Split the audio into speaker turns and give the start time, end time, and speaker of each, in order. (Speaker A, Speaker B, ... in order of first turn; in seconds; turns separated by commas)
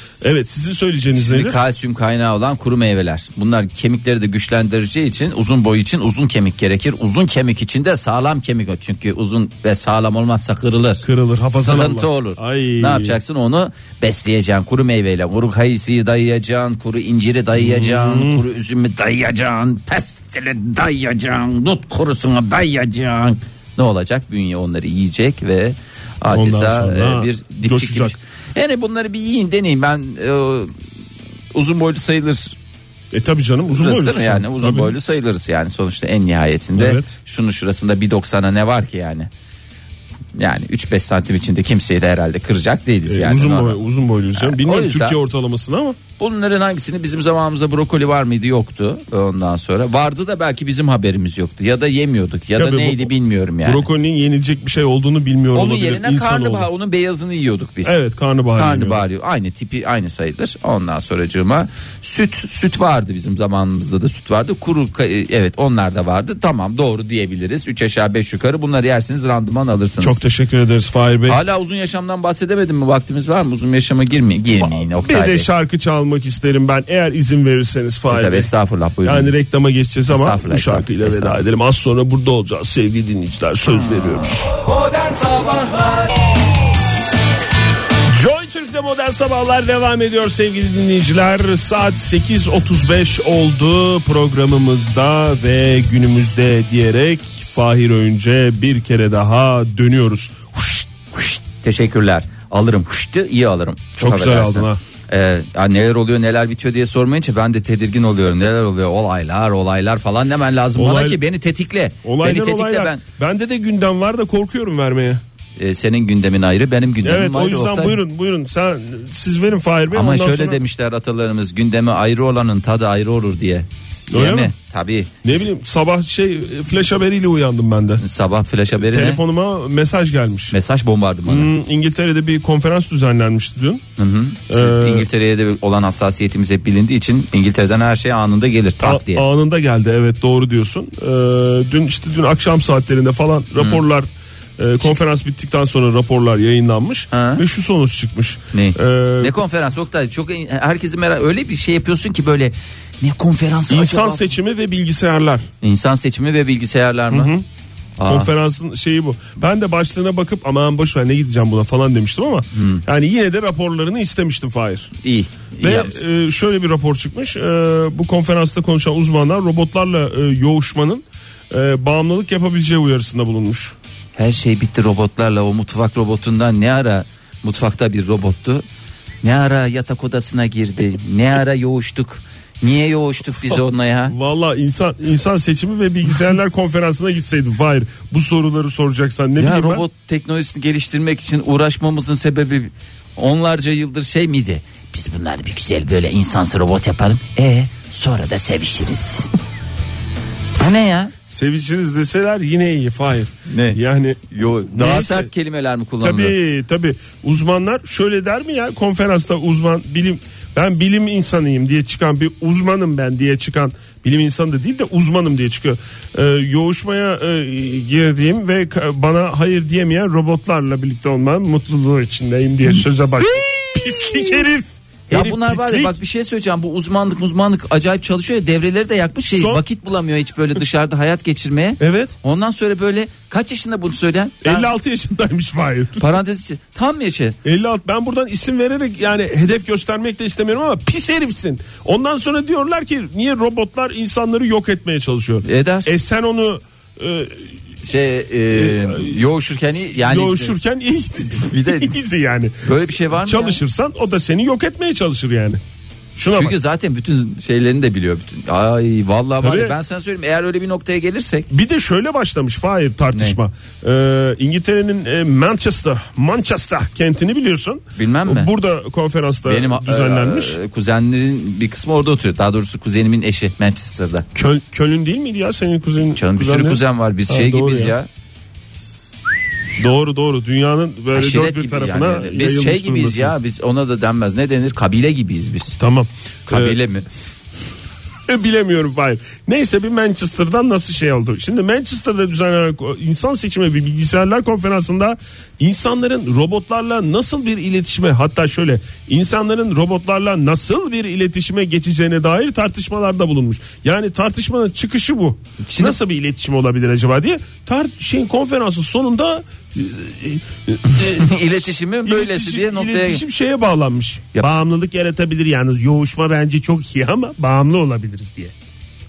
Speaker A: 0.2-1.6, Speaker B: 1.1-30.7, Speaker A: 11.0-13.2, Speaker A: 17.6-18.4, Speaker A: 26.3-28.2, Speaker B: 31.5-32.6, Speaker A: 33.1-34.9, Speaker B: 33.7-39.3, Speaker A: 36.8-37.1, Speaker B: 40.4-43.8, Speaker A: 43.1-46.0, Speaker B: 44.4-45.2, Speaker B: 46.2-53.9, Speaker A: 52.6-53.1, Speaker A: 53.6-56.7, Speaker B: 55.5-58.0, Speaker A: 57.9-59.0, Speaker B: 58.6-70.2, Speaker A: 70.0-71.4, Speaker B: 71.3-75.5, Speaker A: 74.6-78.5, Speaker B: 78.1-79.3, Speaker A: 79.0-84.7, Speaker B: 80.1-81.4, Speaker B: 83.8-84.3, Speaker B: 85.0-86.1, Speaker A: 88.1-101.2, Speaker B: 101.2-113.0, Speaker A: 104.0-104.8, Speaker A: 110.8-111.2, Speaker A: 112.0-115.2, Speaker B: 115.6-118.0, Speaker A: 117.0-120.6, Speaker B: 119.9-125.5, Speaker A: 124.1-124.5, Speaker A: 125.2-128.0, Speaker B: 128.0-129.2, Speaker A: 128.8-130.6, Speaker B: 130.5-131.5, Speaker A: 131.3-133.8, Speaker B: 134.0-139.2, Speaker A: 134.5-135.1, Speaker A: 138.8-149.3, Speaker B: 143.6-143.8, Speaker B: 147.1-147.4, Speaker B: 148.5-154.2, Speaker A: 153.7-155.5, Speaker B: 155.6-157.3, Speaker A: 157.1-157.4, Speaker B: 158.0-158.3, Speaker A: 158.1-164.9, Speaker B: 162.5-162.8, Speaker B: 165.0-166.0, Speaker A: 165.6-173.8, Speaker B: 174.2-178.7, Speaker B: 179.2-184.2, Speaker A: 184.1-189.8, Speaker B: 189.4-199.3, Speaker B: 200.6-201.1, Speaker A: 201.3-205.3, Speaker B: 203.5-203.8, Speaker B: 204.3-206.4, Speaker A: 206.0-226.0, Speaker B: 225.1-234.7, Speaker A: 229.3-229.6, Speaker A: 231.8-232.2, Speaker A: 234.4-236.0, Speaker B: 236.0-237.4, Speaker A: 237.4-247.5, Speaker B: 245.4-245.9, Speaker B: 247.8-250.5, Speaker A: 248.5-249.2, Speaker A: 249.9-255.6, Speaker B: 251.4-251.9, Speaker B: 252.6-253.6, Speaker A: 256.2-256.6, Speaker B: 256.3-261.5, Speaker A: 259.4-259.8, Speaker A: 261.5-270.6, Speaker B: 263.1-263.4, Speaker B: 267.9-268.5, Speaker B: 269.5-274.3, Speaker A: 274.3-277.9, Speaker B: 276.1-278.1, Speaker A: 279.8-283.4, Speaker B: 281.1-285.8, Speaker A: 285.8-286.8, Speaker B: 286.5-287.1, Speaker A: 288.3-318.5, Speaker B: 305.6-306.0, Speaker B: 310.9-313.2